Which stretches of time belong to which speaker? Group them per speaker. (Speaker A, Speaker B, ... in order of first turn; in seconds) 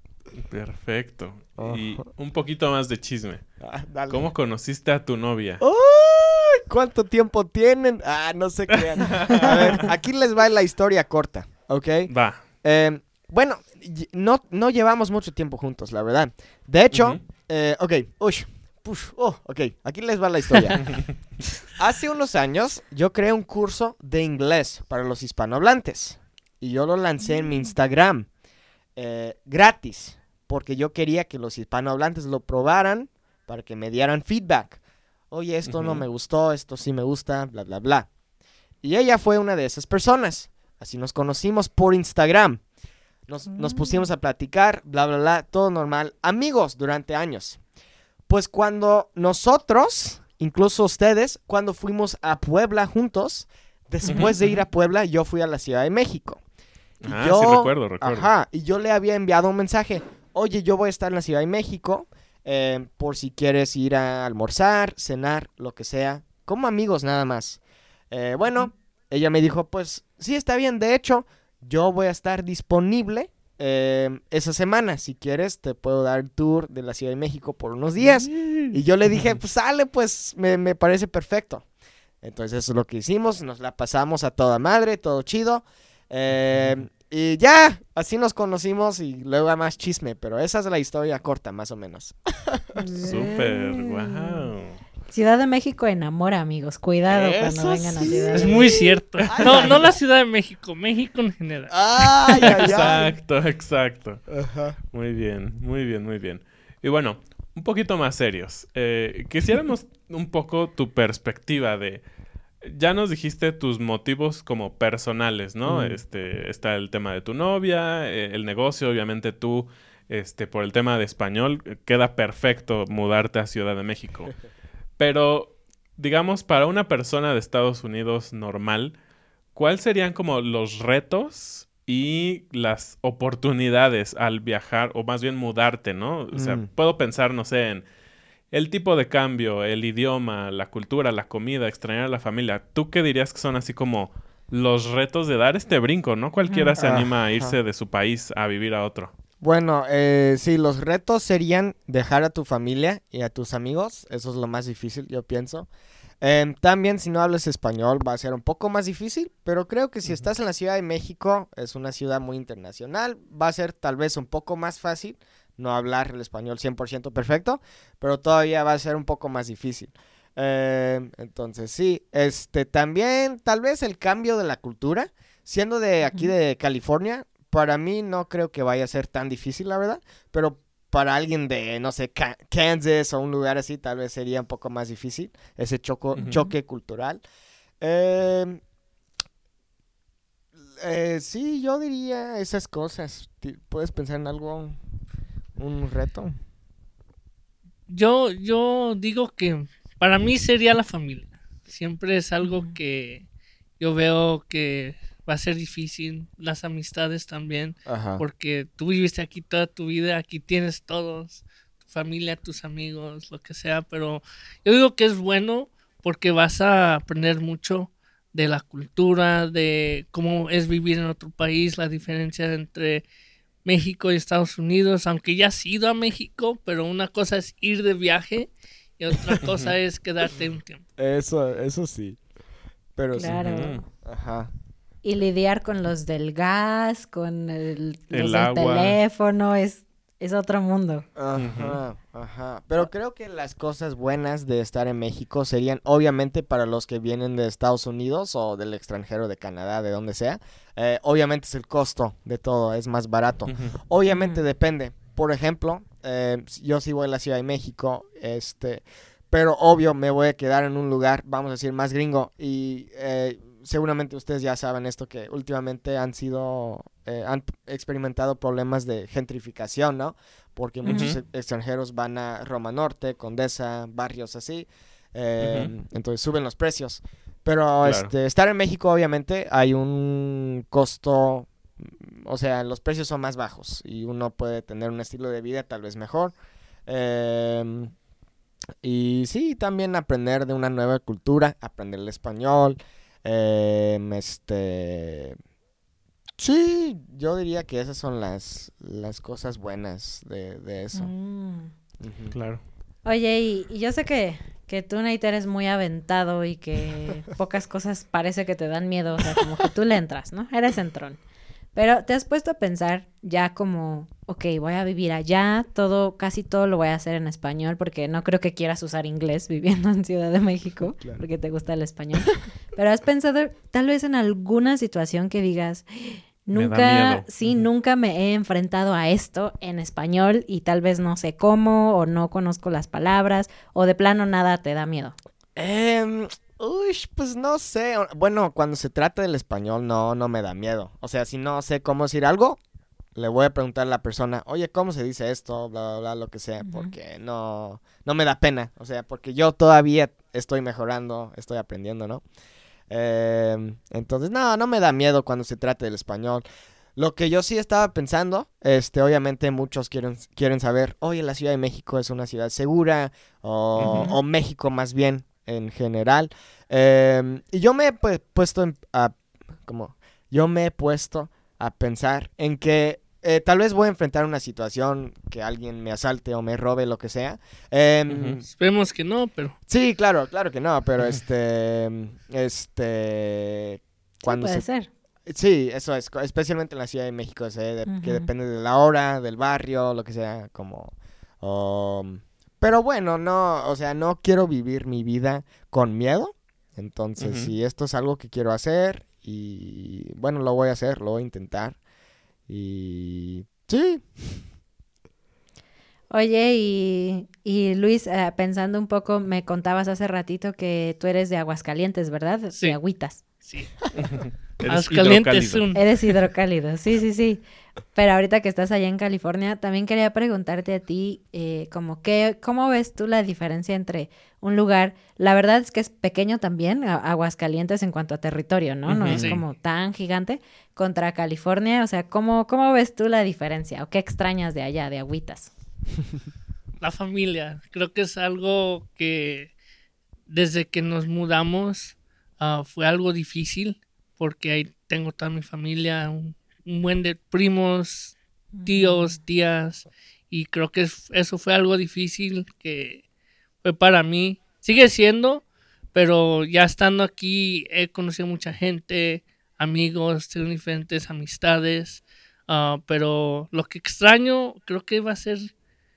Speaker A: 0.4-3.5, 4.1-5.6, 8.8-9.9, 12.1-12.4, 16.9-17.2, 20.9-21.1, 35.6-36.0, 54.0-54.5, 57.0-58.3, 93.0-94.8, 99.3-99.7, 102.4-104.2, 104.9-112.0, 112.6-124.3, 125.0-128.9, 129.5-137.9, 138.5-149.1, 186.1-186.4, 229.4-229.8, 233.2-233.8, 238.1-239.0, 241.3-241.8, 253.5-253.8, 270.9-271.2, 275.4-275.7, 277.8-278.1, 302.3-302.6, 326.5-327.3, 363.8-364.1, 378.1-378.4, 397.2-397.5, 414.0-415.6, 428.9-429.4
Speaker B: 1.6-2.0, 3.6-4.3, 5.6-21.1, 21.7-28.3, 29.0-34.8, 35.3-38.1, 38.8-42.6, 43.3-47.6, 48.3-56.4, 57.0-81.7, 82.2-92.8, 97.1-99.9, 101.7-103.1, 104.3-104.8, 115.7-116.0, 136.3-136.7, 146.8-147.6, 149.4-155.7, 156.2-187.2, 187.8-188.6, 190.7-194.8, 195.6-196.3, 207.9-208.2, 231.0-232.2, 233.0-234.5, 241.2-286.3, 286.9-287.9, 288.8-295.4, 296.4-301.1, 302.0-302.4, 335.6-342.6, 343.1-352.2, 352.9-356.4, 357.0-378.5, 379.7-384.7, 385.3-401.8, 402.5-404.4
Speaker C: 43.5-44.0, 92.7-94.5, 95.1-98.7, 146.5-146.7, 202.4-202.7, 233.1-233.9, 235.0-241.1, 254.1-254.4, 270.8-271.1, 300.9-301.7, 303.1-311.2, 311.7-335.2, 346.6-346.9, 384.2-384.9, 387.9-388.3, 406.1-413.2, 415.8-417.4, 417.9-435.5, 448.6-449.2
Speaker D: 98.3-102.7, 197.9-203.2, 203.8-223.1, 223.7-230.8, 378.5-379.6, 412.5-412.8, 413.4-413.8, 414.7-415.9, 429.1-429.4, 436.8-439.5, 440.3-453.0, 453.6-465.5